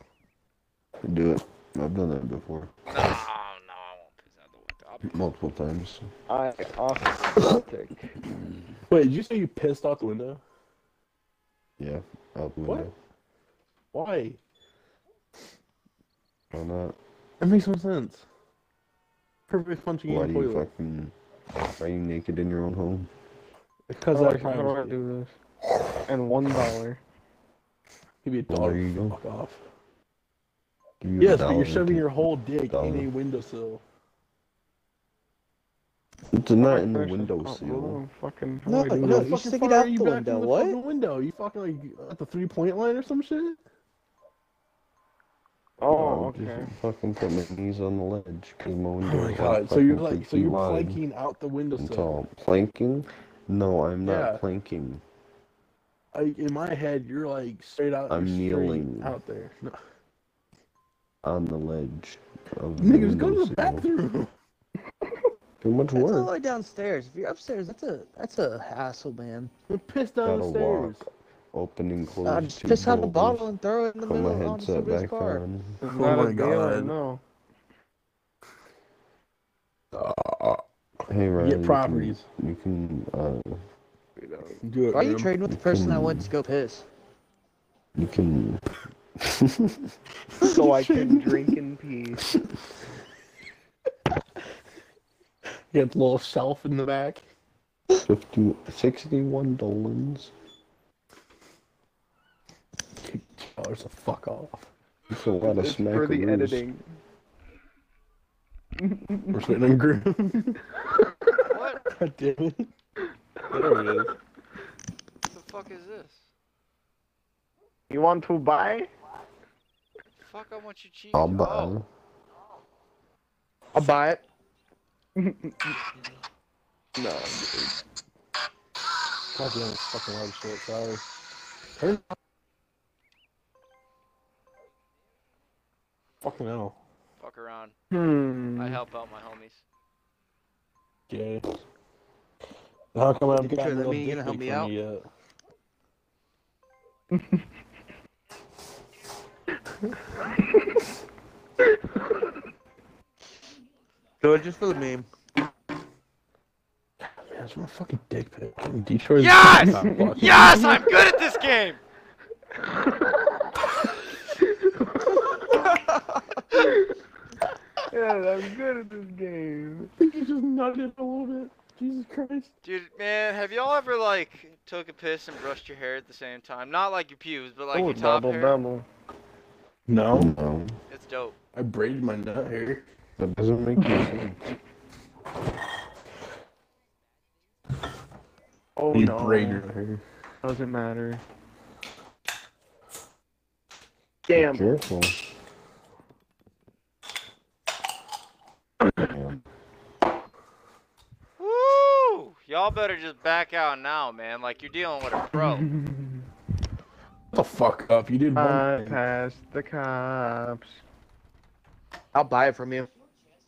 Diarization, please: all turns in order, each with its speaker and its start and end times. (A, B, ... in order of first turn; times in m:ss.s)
0:01.0-0:02.7 A
0:02.9-0:05.2 B
0:05.0-0:06.1 A
0:06.3-0:08.1 C
0:08.9-0:10.4 D
0:11.8-0:12.9 A
0:12.7-0:12.9 D
0:13.9-0:14.4 D
0:16.5-0:17.0 A
0:17.4-0:18.2 D
0:19.5-0:20.7 D
0:20.1-0:21.2 A
0:21.8-0:23.1 A
0:23.9-0:25.0 D
0:24.1-0:25.3 C
0:26.1-0:27.0 C
0:28.2-0:29.6 D
0:28.5-0:29.2 A
0:31.0-0:32.1 A
0:31.2-0:33.8 D
0:32.7-0:33.1 A
0:36.3-0:38.0 A
0:36.6-0:39.3 C
0:38.6-0:40.8 E
0:39.0-0:43.6 D
0:45.8-0:46.7 C
0:46.0-0:51.0 A
0:49.0-0:52.1 D
0:51.8-0:55.0 A
0:54.0-0:54.4 D
0:56.1-0:59.8 D
0:58.1-0:59.2 A
1:01.2-1:03.9 A
1:02.8-1:04.3 D
1:05.6-1:06.3 A
1:06.0-1:09.5 E
1:09.7-1:11.1 D
1:10.2-1:13.5 A
1:12.2-1:15.4 E
1:14.0-1:15.8 A
1:15.8-1:17.2 C
1:15.9-1:16.9 D
1:19.9-1:20.6 D
1:21.1-1:23.6 A
1:21.4-1:22.2 D
1:24.2-1:24.6 C
1:24.6-1:25.3 D
1:24.9-1:26.9 E
1:25.5-1:26.3 A
1:28.0-1:28.7 A
1:29.2-1:29.9 A
1:30.4-1:32.2 C
1:30.4-1:31.5 D
1:35.7-1:37.2 D
1:38.0-1:40.3 A
1:43.0-1:44.7 D
1:45.1-1:46.7 A
1:45.4-1:46.8 C
1:48.8-1:49.4 C
1:49.3-1:50.6 D
1:51.4-1:51.8 B
1:51.9-1:52.7 D
1:53.5-1:54.1 D
1:55.3-1:56.3 B
1:57.9-1:58.9 C
2:00.2-2:01.8 B
2:01.1-2:01.9 A
2:03.7-2:04.2 E
2:05.2-2:05.8 C
2:07.0-2:07.8 C
2:09.3-2:11.0 D
2:11.8-2:12.1 D
2:16.2-2:16.8 D
2:17.2-2:17.7 B
2:17.9-2:18.8 C
2:18.6-2:19.6 B
2:21.1-2:21.5 D
2:22.9-2:25.1 D
2:23.3-2:24.7 E
2:34.2-2:35.1 E
2:37.3-2:40.9 D
2:39.2-2:41.8 B
2:39.8-2:40.1 C
2:42.6-2:43.3 C
2:44.4-2:45.5 C
2:46.5-2:46.9 C
2:47.9-2:49.9 C
2:50.0-2:52.5 D
2:52.6-2:58.6 B
2:57.7-2:58.9 C
2:59.9-3:00.3 D
3:00.1-3:00.8 A
3:00.9-3:01.4 B
3:01.5-3:02.9 D
3:03.2-3:04.4 A
3:03.8-3:04.1 C
3:08.8-3:09.6 C
3:08.9-3:10.0 D
3:10.4-3:11.2 C
3:14.3-3:14.7 C
3:14.3-3:15.2 A
3:18.8-3:19.1 C
3:19.0-3:19.4 A
3:21.4-3:25.7 B
3:25.4-3:26.2 C
3:27.3-3:29.0 D
3:28.4-3:30.8 C
3:32.1-3:32.9 E